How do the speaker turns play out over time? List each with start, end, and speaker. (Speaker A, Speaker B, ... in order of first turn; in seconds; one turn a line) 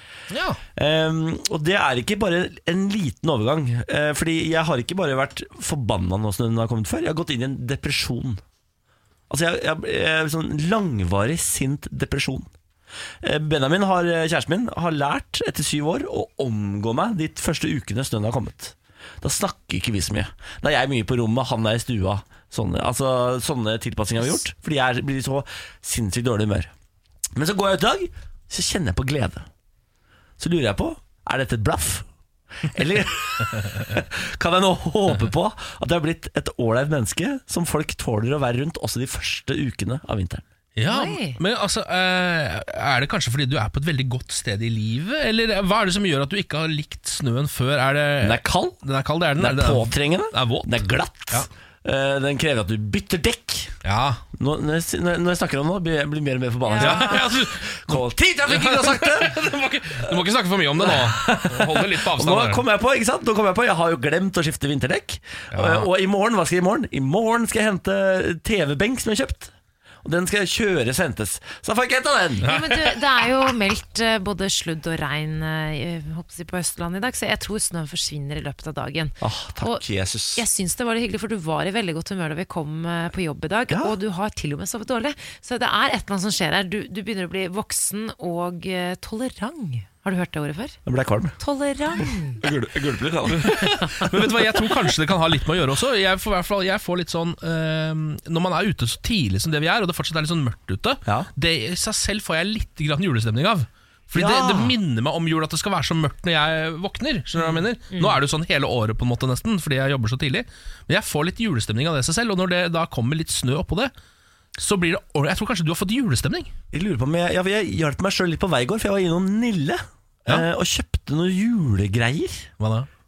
Speaker A: 0.3-0.6
Speaker B: 0.8-8.4
Speaker B: 9.3-12.5
Speaker B: 13.2-26.7
Speaker B: 27.4-29.5
Speaker B: 30.4-32.1
Speaker B: 32.6-40.4
Speaker A: 40.8-51.5
Speaker C: 40.9-41.4
Speaker B: 48.2-48.8
Speaker B: 49.4-53.8
Speaker A: 53.8-54.2
Speaker B: 54.4-59.4
Speaker C: 56.6-57.2
Speaker A: 56.8-62.6
Speaker B: 59.9-60.2
Speaker B: 60.8-69.5
Speaker A: 65.5-65.9
Speaker B: 70.0-72.5
Speaker C: 72.4-79.8
Speaker B: 79.2-80.4
Speaker C: 80.3-90.8
Speaker B: 83.7-84.0
Speaker B: 90.8-91.4
Speaker C: 91.4-92.4
Speaker B: 92.4-94.4
Speaker A: 93.4-113.9
Speaker B: 104.1-104.7
Speaker C: 107.4-108.2
Speaker A: 114.6-116.5
Speaker B: 116.7-122.5
Speaker A: 122.6-122.9